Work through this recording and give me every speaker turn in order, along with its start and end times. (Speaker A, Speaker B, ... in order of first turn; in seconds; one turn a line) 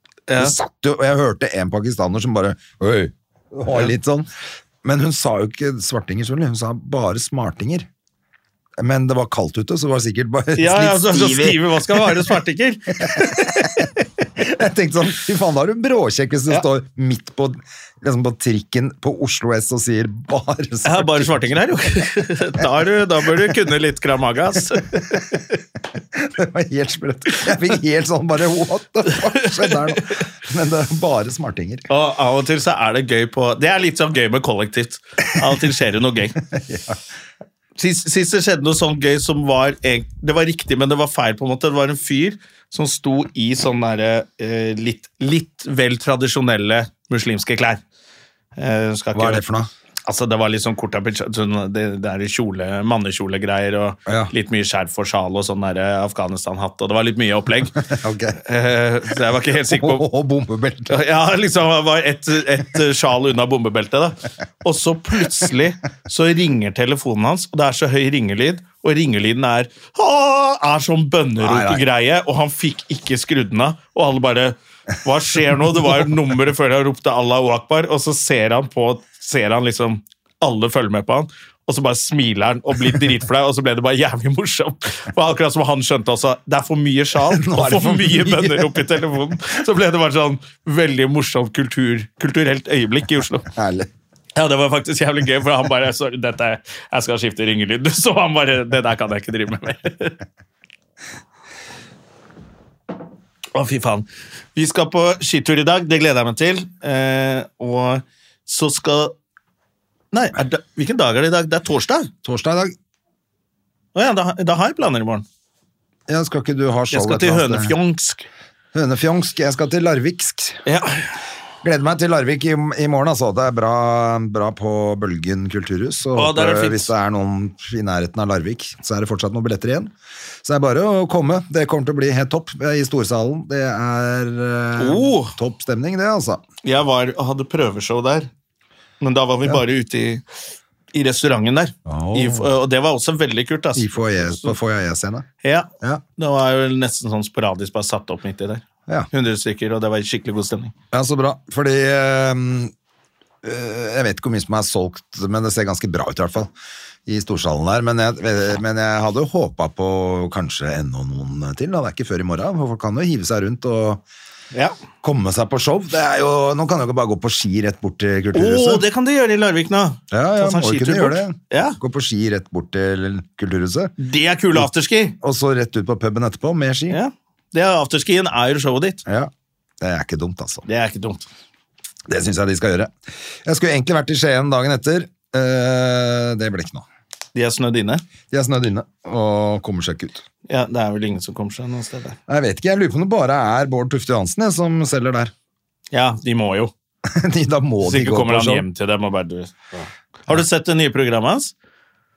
Speaker A: 0.3-0.6
Speaker B: 0.3-4.3
Speaker B: 4.8-7.9
Speaker B: 8.8-12.3
Speaker A: 10.6-14.0
Speaker B: 13.0-13.8
Speaker B: 14.4-21.4
Speaker A: 20.8-25.6
Speaker B: 26.1-31.9
Speaker A: 29.1-30.0
Speaker A: 31.9-36.4
Speaker B: 36.4-37.0
Speaker A: 37.8-47.8
Speaker A: 48.5-49.4
Speaker B: 49.1-49.7
Speaker A: 50.0-57.8
Speaker B: 54.1-54.3
Speaker B: 57.9-58.4
Speaker A: 58.4-60.0
Speaker B: 59.5-61.0
Speaker A: 60.9-93.5
Speaker B: 71.4-71.8
Speaker B: 75.7-76.1
Speaker B: 87.3-88.8
Speaker B: 93.5-93.9
Speaker A: 94.3-100.2
Speaker A: 103.5-109.1
Speaker A: 110.1-112.1
Speaker B: 112.2-112.7
Speaker A: 113.9-115.2
Speaker B: 116.1-117.7
Speaker A: 116.9-118.3
Speaker B: 118.7-120.6
Speaker A: 120.7-121.2
Speaker B: 121.6-129.9
Speaker A: 126.2-126.9
Speaker B: 130.4-136.4
Speaker A: 134.8-135.3
Speaker A: 136.6-138.3
Speaker A: 139.0-140.2
Speaker A: 140.9-144.6
Speaker B: 141.8-142.5
Speaker B: 143.7-145.3
Speaker A: 145.4-150.7
Speaker B: 150.9-152.7
Speaker B: 153.4-156.5
Speaker B: 157.1-164.0
Speaker B: 165.0-168.8
Speaker A: 168.3-171.8
Speaker B: 170.1-173.9
Speaker A: 174.0-175.2
Speaker B: 175.2-177.0
Speaker A: 176.9-179.0
Speaker B: 179.1-180.6
Speaker A: 180.7-181.3
Speaker B: 182.1-182.9
Speaker B: 183.4-186.8
Speaker A: 187.3-188.0
Speaker B: 188.3-190.2
Speaker A: 190.5-192.2
Speaker B: 192.3-195.3
Speaker A: 195.9-196.7
Speaker B: 197.0-198.7
Speaker A: 197.8-201.5